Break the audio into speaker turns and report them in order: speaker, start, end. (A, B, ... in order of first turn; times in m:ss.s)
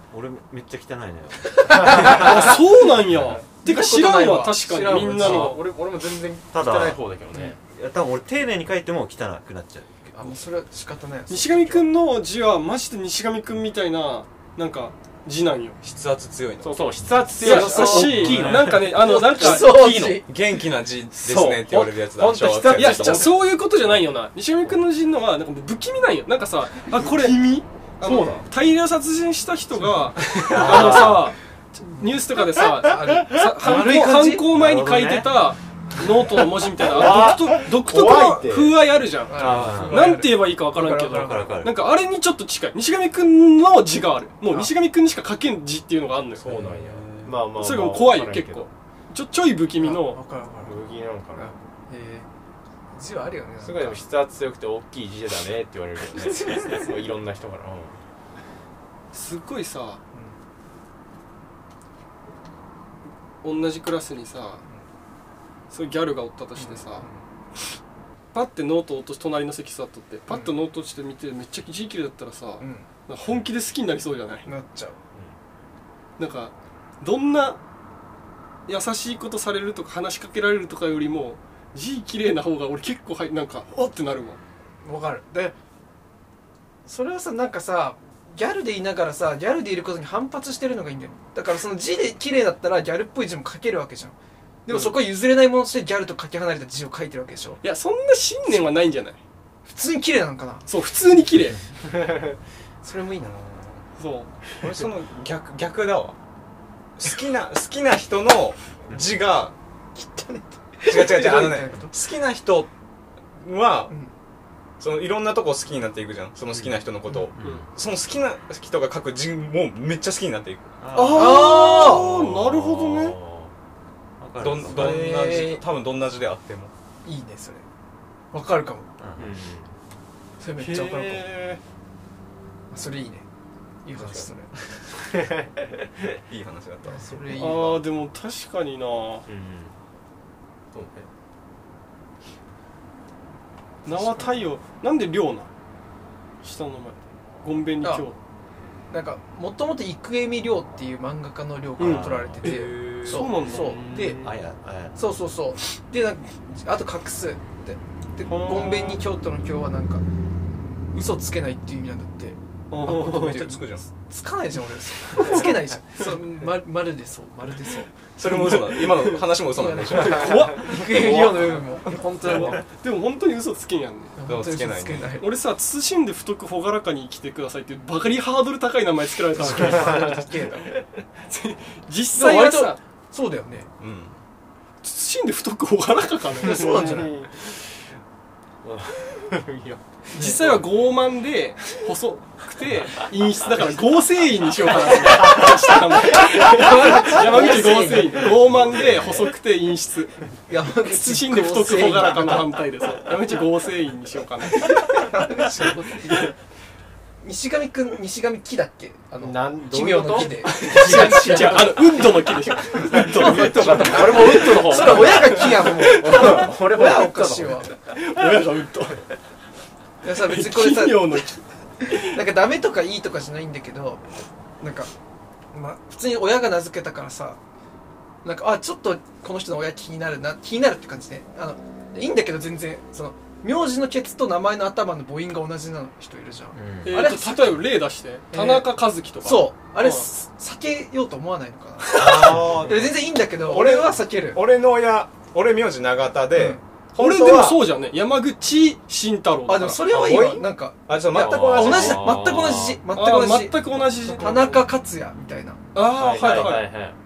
0:00.1-0:02.5 A
0:01.4-0:02.7 B
0:01.8-0:02.3 C
0:01.8-0:05.6 D
0:03.6-0:05.6 B
0:04.9-0:07.6 C
0:06.5-0:07.0 A
0:07.5-0:10.3 A
0:10.1-0:11.9 B
0:11.3-0:15.8 D
0:15.8-0:16.8 E
0:16.6-0:20.2 C
0:17.4-0:18.4 B
0:17.4-0:19.8 D
0:18.0-0:18.9 A
0:19.0-0:20.3 B
0:20.2-0:23.3 E
0:21.1-0:23.4 C
0:22.7-0:46.5 D
0:26.9-0:28.4 C
0:30.3-0:31.3 A
0:30.6-0:31.2 C
0:32.0-0:34.5 B
0:34.5-0:35.4 A
0:36.8-0:38.8 C
0:39.3-0:41.6 B
0:39.4-0:40.2 A
0:40.9-0:41.8 A
0:46.4-0:47.4 E
0:46.4-0:48.7 C
0:47.5-0:50.2 D
0:49.8-0:50.8 B
0:50.6-0:51.5 C
0:51.3-0:52.3 B
0:52.9-0:54.0 B
0:53.6-0:58.0 C
0:56.4-0:56.8 B
0:59.1-1:00.0 D
1:03.4-1:04.6 D
1:05.7-1:07.1 D
1:06.6-1:07.2 B
1:08.3-1:14.5 D
1:12.6-1:12.9 B
1:14.4-1:15.0 B
1:16.2-1:17.6 D
1:18.7-1:24.4 D
1:24.8-1:25.5 B
1:26.8-1:37.6 B
1:37.6-1:39.2 D
1:39.6-1:40.6 B
1:40.7-1:41.6 D
1:42.8-1:43.4 B
1:43.4-1:43.8 E
1:44.0-1:44.3 D
1:44.6-1:46.2 E
1:47.0-1:49.5 E
1:49.9-1:51.9 B
1:50.9-1:52.7 E
1:53.4-1:53.9 E
1:54.8-2:00.8 E
1:57.4-1:57.7 A
2:00.8-2:02.0 A
2:00.9-2:03.2 D
2:00.9-2:02.0 B
2:01.6-2:03.5 C
2:04.2-2:05.1 A
2:04.4-2:06.7 E
2:04.6-2:05.6 B
2:07.0-2:07.6 B
2:08.3-2:08.9 B
2:09.0-2:09.4 A
2:09.2-2:09.7 C
2:10.4-2:11.3 B
2:10.6-2:11.6 D
2:12.7-2:13.2 B
2:13.8-2:14.5 B
2:14.0-2:14.3 C
2:15.0-2:16.2 C
2:16.3-2:17.0 E
2:16.8-2:17.8 B
2:17.3-2:19.2 D
2:19.3-2:19.7 C
2:20.7-2:21.1 C
2:23.8-2:25.5 D
2:23.9-2:24.4 B
2:26.4-2:28.2 D
2:27.8-2:28.1 B
2:28.9-2:34.2 B
2:31.8-2:33.8 D
2:31.8-2:33.1 A
2:33.3-2:34.4 C
2:34.2-2:35.0 A
2:34.9-2:40.0 B
2:38.3-2:39.0 D
2:40.9-2:47.9 B
2:42.7-2:43.5 D
2:43.1-2:43.8 E
2:45.2-2:45.5 D
2:48.2-2:50.5 E
2:48.2-2:49.2 D
2:49.5-2:52.6 B
2:49.9-2:51.5 D
2:52.2-2:54.2 D
2:54.2-2:55.3 B
2:54.2-2:55.2 E
2:55.2-3:00.2 D
2:59.4-3:00.7 B
2:59.5-3:00.2 C
3:01.3-3:02.8 D
3:02.1-3:03.7 B
3:03.8-3:04.2 E
3:04.8-3:07.1 D
3:06.4-3:07.1 B
3:06.4-3:07.5 C
3:08.6-3:10.6 C
3:10.1-3:10.5 B
3:10.1-3:20.2 D
3:15.0-3:15.6 C
3:16.0-3:18.5 B
3:16.4-3:19.2 C
3:18.6-3:19.1 A
3:20.5-3:22.6 B
3:20.8-3:25.1 D
3:24.6-3:26.3 B
3:27.2-3:32.0 B
3:29.2-3:37.7 C
3:30.4-3:36.5 D
3:32.7-3:37.7 B
3:37.9-3:39.0 D
3:40.0-3:41.2 B
3:40.1-3:42.1 D
3:41.9-3:44.0 B
3:44.6-3:44.9 B
3:45.5-3:47.4 B
3:48.2-3:57.6 B
3:56.5-3:57.1 A
3:56.8-4:00.0 D
3:58.3-3:58.7 B
3:59.2-4:04.4 B
4:01.9-4:07.6 E
4:02.2-4:02.7 A
4:06.3-4:06.6 B
4:07.0-4:10.4 D
4:09.5-4:15.6 B
4:09.9-4:12.2 E
4:11.1-4:12.8 C
4:12.9-4:14.6 D
4:15.7-4:16.7 D
4:15.8-4:17.0 C
4:16.2-4:16.5 E